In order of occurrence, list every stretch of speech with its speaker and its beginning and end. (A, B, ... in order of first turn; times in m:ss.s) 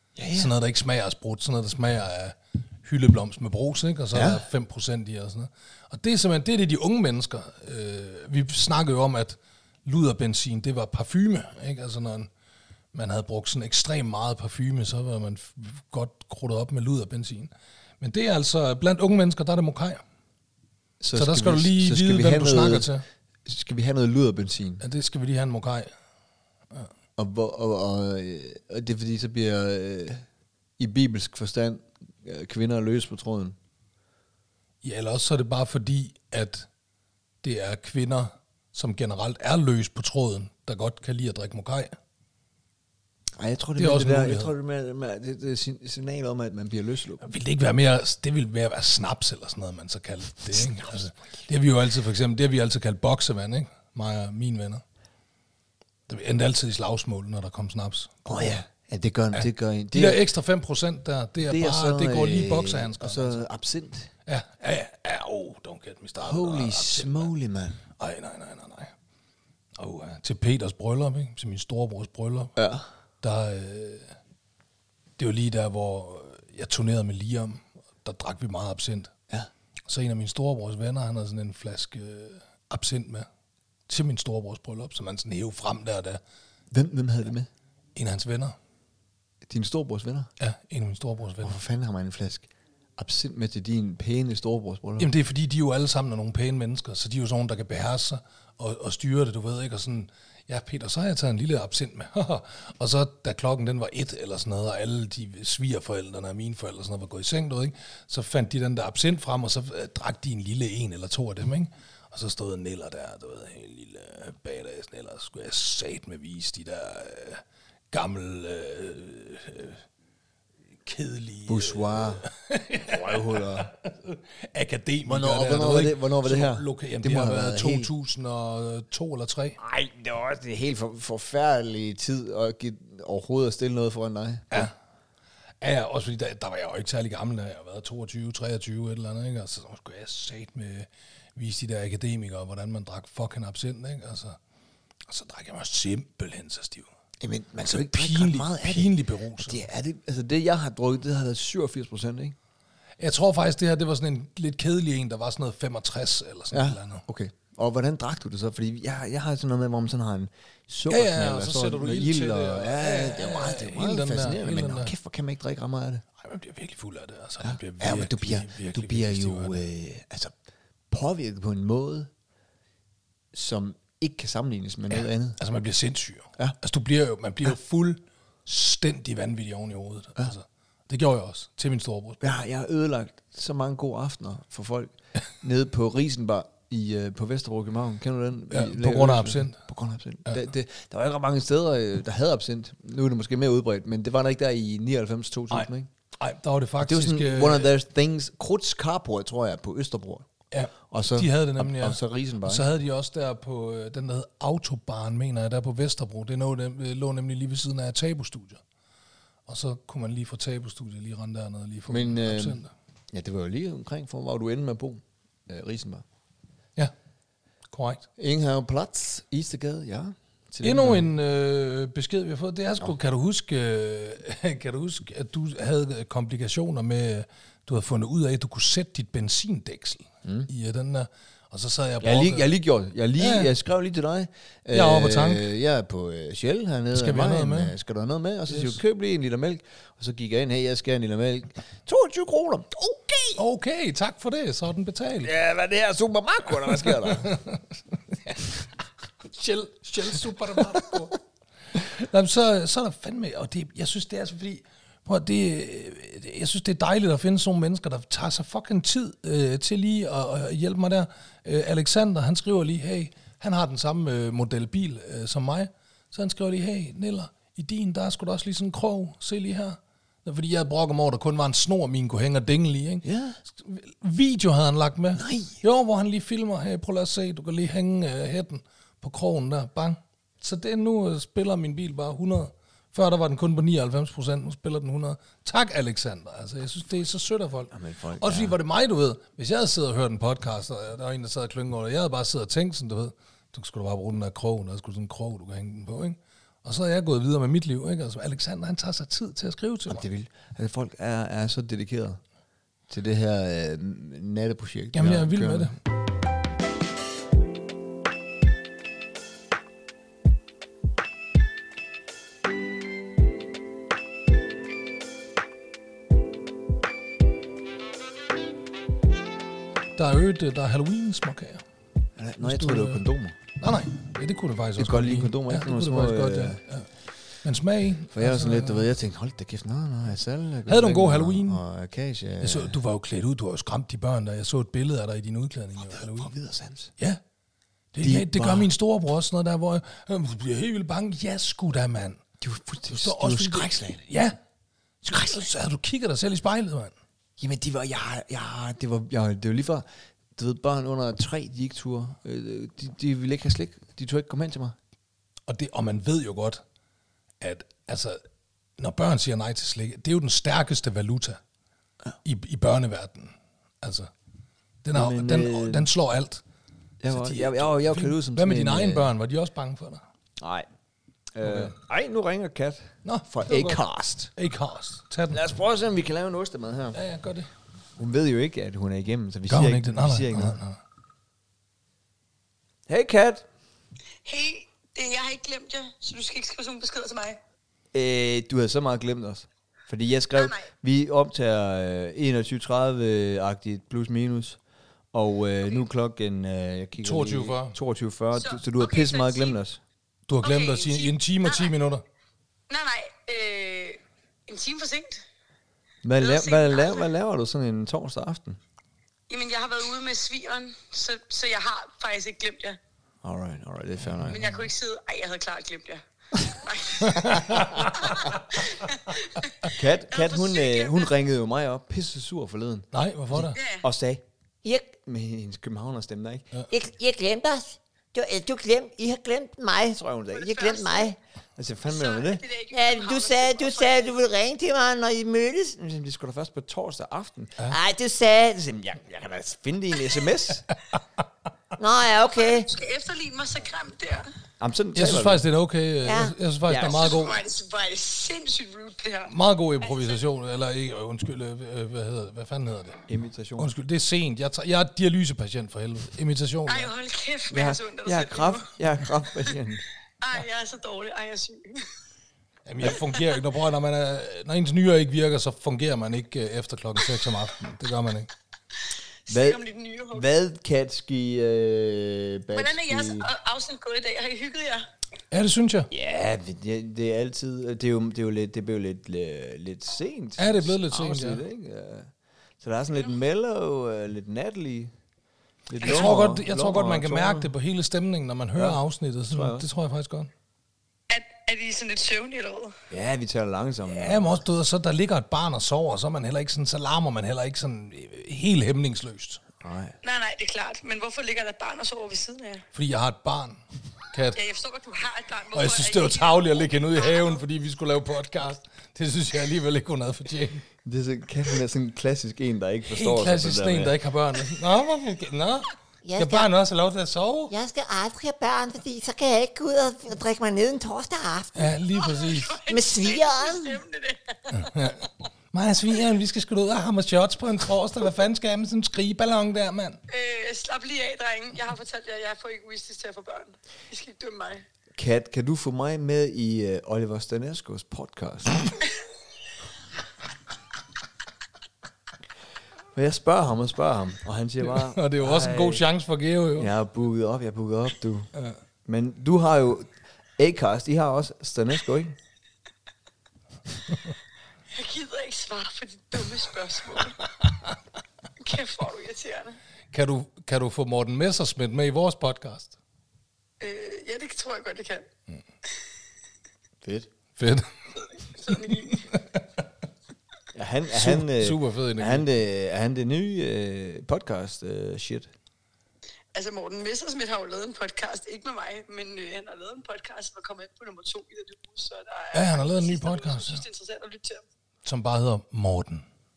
0:00.2-0:00.5 A
0:00.3-0:12.3 B
0:04.1-0:04.4 A
0:12.9-0:20.0 B
0:21.0-0:22.9 A
0:21.1-0:23.0 B
0:23.4-0:24.8 A
0:24.8-0:25.9 B
0:27.2-0:30.2 A
0:30.8-0:33.6 A
0:34.8-0:36.7 B
0:37.4-0:42.0 B
0:43.4-0:47.3 A
0:43.8-0:44.5 B
0:47.2-0:54.8 B
0:56.1-0:58.6 B
0:58.3-1:00.2 A
0:59.3-1:03.4 B
1:01.4-1:04.1 A
1:04.3-1:07.3 B
1:06.2-1:07.8 A
1:08.0-1:08.9 B
1:09.8-1:12.5 B
1:12.6-1:12.8 A
1:13.2-1:14.1 B
1:15.2-1:19.1 B
1:19.9-1:23.3 B
1:23.9-1:26.2 B
1:26.7-1:27.5 A
1:28.0-1:28.6 B
1:29.4-1:30.3 A
1:30.4-1:31.6 B
1:31.4-1:35.1 A
1:35.0-1:59.8 B
2:00.8-2:09.6 B
2:01.5-2:02.2 A
2:02.9-2:03.7 A
2:05.0-2:07.9 A
2:09.6-2:14.7 A
2:15.6-2:24.4 B
2:25.1-2:26.9 B
2:27.2-2:32.4 A
2:27.6-2:29.6 B
2:33.0-2:37.0 B
2:36.5-2:46.0 A
2:40.9-2:44.9 B
2:46.2-2:49.6 B
2:47.4-2:50.3 A
2:50.9-2:52.1 A
2:53.3-2:55.4 A
2:55.4-3:02.3 B
3:02.2-3:15.9 A
3:08.5-3:09.6 B
3:16.2-3:17.7 B
3:16.8-3:20.3 A
3:20.5-3:28.6 B
3:20.9-3:22.6 A
3:29.5-3:32.7 B
3:31.9-3:32.6 A
3:33.1-3:36.0 A
3:37.7-3:38.1 B
3:38.2-3:41.1 A
3:40.6-3:52.5 B
3:50.2-3:50.5 A
3:52.0-4:03.4 A
3:53.2-3:53.5 B
3:54.7-3:55.5 B
3:56.9-3:57.7 B
3:58.5-3:58.8 B
4:03.4-4:05.3 B
4:05.2-4:07.3 A
4:06.9-4:07.8 B
4:09.2-4:11.2 B
4:11.7-5:00.0 B
4:33.0-4:33.4 A
4:35.2-4:35.6 A
4:47.7-4:48.6 A
4:59.9-5:02.2 A
5:02.9-5:05.7 A
5:04.9-5:05.7 B
5:20.0-5:21.6 B
5:22.2-5:23.4 A
5:22.4-5:23.0 B
5:23.6-5:26.9 B
5:24.8-5:26.6 A
5:27.4-5:28.8 B
5:28.1-5:32.7 A
5:30.7-5:31.6 B
5:32.4-5:36.3 B
5:35.8-5:36.9 A
5:37.9-5:42.2 B
5:38.0-5:38.7 A
5:42.4-5:44.0 A
5:42.9-5:44.4 B
5:45.0-5:46.9 B
5:45.1-5:45.5 A
5:47.4-5:54.8 A
5:55.5-5:56.6 B
5:57.4-5:58.2 B
5:58.8-6:01.4 B
6:02.2-6:04.1 B
6:04.8-6:06.4 B
6:04.9-6:05.9 A
6:07.0-6:09.1 A
6:07.1-6:10.0 B
6:10.4-6:10.7 A
6:11.3-6:14.3 A
6:11.4-6:11.7 B
6:13.0-6:13.8 B
6:14.3-6:15.4 B
6:15.3-6:17.0 A
6:16.9-6:17.5 B
6:18.0-6:20.6 A
6:19.5-6:20.8 B
6:22.9-6:23.4 A
6:24.2-6:27.4 C
6:27.9-6:34.6 A
6:30.4-6:30.7 C
6:35.1-6:39.8 A
6:37.0-6:37.8 B
6:38.3-6:39.6 C
6:40.3-6:42.0 B
6:40.4-6:41.7 C
6:42.7-6:45.2 C
6:46.0-6:48.6 A
6:46.2-6:47.1 C
6:49.3-6:52.8 C
6:53.2-6:54.6 A
6:54.3-7:01.1 C
6:57.0-6:58.4 B
6:57.5-6:57.8 A
6:59.7-7:04.2 A
7:02.9-7:03.6 B
7:03.5-7:03.9 C
7:04.6-7:04.9 D
7:04.9-7:06.5 A
7:06.7-7:10.0 D
7:09.9-7:12.4 A
7:10.3-7:11.1 C
7:10.6-7:11.1 D
7:11.9-7:14.2 C
7:12.7-7:15.7 D
7:15.7-7:17.8 A
7:17.7-7:18.5 D
7:18.5-7:20.6 A
7:21.8-7:22.7 D
7:22.2-7:24.3 C
7:24.6-7:25.4 A
7:25.0-7:27.4 B
7:26.0-7:26.3 D
7:26.7-7:27.1 A
7:26.8-7:30.2 C
7:29.3-7:33.0 B
7:33.1-7:33.7 A
7:33.6-7:36.9 B
7:36.7-7:38.7 C
7:37.5-7:39.8 A
7:40.2-7:41.9 C
7:42.7-7:48.3 B
7:42.9-7:43.3 C
7:49.3-7:50.3 C
7:49.3-7:53.3 A
7:52.5-7:54.9 C
7:55.3-7:55.9 B
7:55.9-8:04.9 A
8:00.4-8:01.4 B
8:05.7-8:07.5 A
8:05.8-8:10.3 B
8:08.6-8:09.7 A
8:11.1-8:12.7 C
8:12.9-8:14.4 A
8:13.9-8:19.4 B
8:19.6-8:20.0 A
8:20.0-8:22.6 C
8:22.7-8:23.6 B
8:24.1-8:24.4 B
8:24.3-8:27.4 C
8:25.5-8:30.7 B
8:30.8-8:34.0 A
8:32.9-8:37.5 B
8:36.0-8:36.5 D
8:37.5-8:41.7 D
8:41.6-8:42.6 B
8:42.0-8:44.9 C
8:42.7-8:43.8 D
8:44.5-8:50.0 B
8:50.1-8:54.6 C
8:55.0-8:58.7 A
9:02.9-9:05.9 A
9:04.6-9:06.7 B
9:06.6-9:08.3 A
9:08.9-9:12.2 A
9:14.7-9:17.2 C
9:18.4-9:19.6 C
9:19.9-9:22.8 B
9:23.6-9:25.0 C
9:26.8-9:27.1 A
9:27.4-9:27.7 B
9:28.4-9:29.1 C
9:28.5-9:29.4 B
9:30.5-9:35.3 A
9:30.9-9:32.3 B
9:36.3-9:44.4 C
9:42.3-9:43.6 B
9:44.8-9:46.0 B